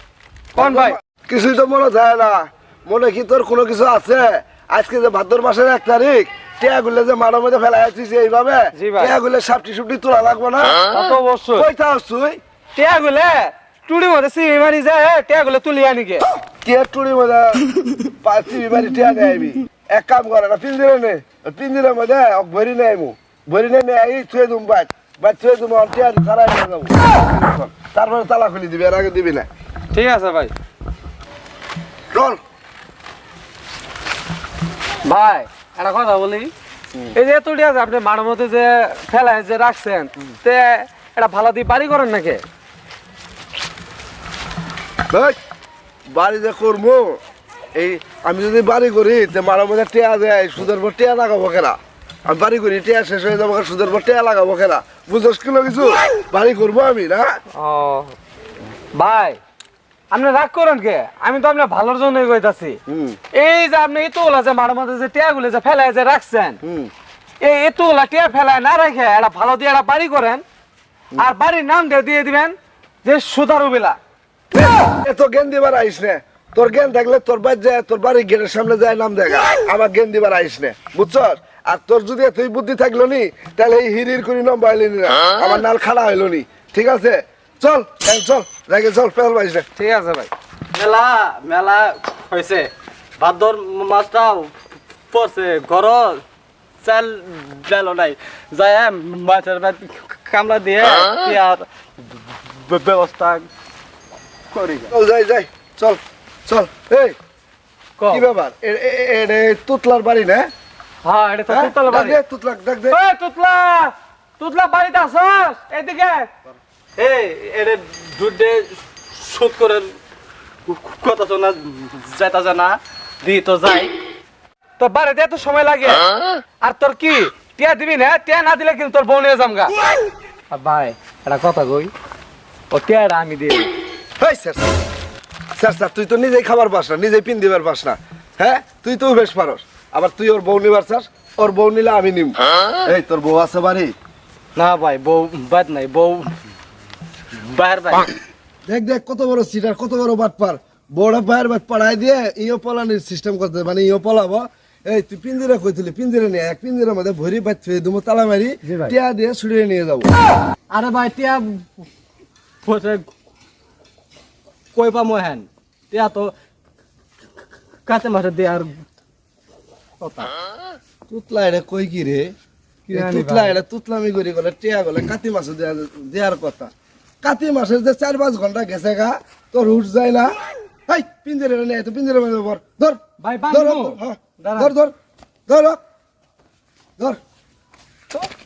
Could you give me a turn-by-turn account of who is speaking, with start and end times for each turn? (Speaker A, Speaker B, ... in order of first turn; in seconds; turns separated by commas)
Speaker A: 0.5-1.0, Speaker B: 0.6-10.8, Speaker A: 8.7-9.2, Speaker A: 10.8-11.7, Speaker B: 11.6-12.4, Speaker A: 12.8-16.2, Speaker B: 16.6-17.7, Speaker B: 18.2-29.5, Speaker A: 29.9-30.5, Speaker B: 32.1-32.4, Speaker A: 35.0-36.5, Speaker A: 37.1-42.4, Speaker B: 46.1-47.2, Speaker B: 47.7-57.4, Speaker A: 57.5-58.1, Speaker A: 58.9-59.4, Speaker A: 60.1-62.8, Speaker B: 62.9-63.2, Speaker A: 63.3-66.6, Speaker B: 66.6-66.9, Speaker A: 67.4-70.4, Speaker A: 71.2-74.0, Speaker B: 74.5-89.7, Speaker A: 89.8-90.3, Speaker C: 90.7-94.5, Speaker C: 95.1-96.2, Speaker C: 96.8-101.6, Speaker C: 102.6-103.5, Speaker C: 104.5-104.9, Speaker B: 104.9-107.2, Speaker A: 108.0-108.2, Speaker B: 108.1-110.5, Speaker A: 111.0-112.2, Speaker B: 111.5-113.0, Speaker A: 112.9-116.3, Speaker C: 117.0-119.9, Speaker C: 120.7-123.9, Speaker A: 124.8-126.0, Speaker A: 126.6-129.7, Speaker A: 130.5-131.9, Speaker A: 132.7-133.7, Speaker B: 134.2-134.7, Speaker B: 135.6-143.9, Speaker C: 144.6-146.3, Speaker C: 147.4-148.1, Speaker B: 148.7-160.1, Speaker A: 158.6-158.9, Speaker C: 160.7-161.7, Speaker C: 162.6-163.1, Speaker C: 164.7-166.3, Speaker C: 167.8-168.8, Speaker C: 170.0-170.3, Speaker B: 171.1-172.3, Speaker B: 172.9-176.7, Speaker A: 172.9-173.6, Speaker B: 177.2-180.3, Speaker B: 180.9-184.9, Speaker A: 183.2-184.7, Speaker B: 185.5-185.8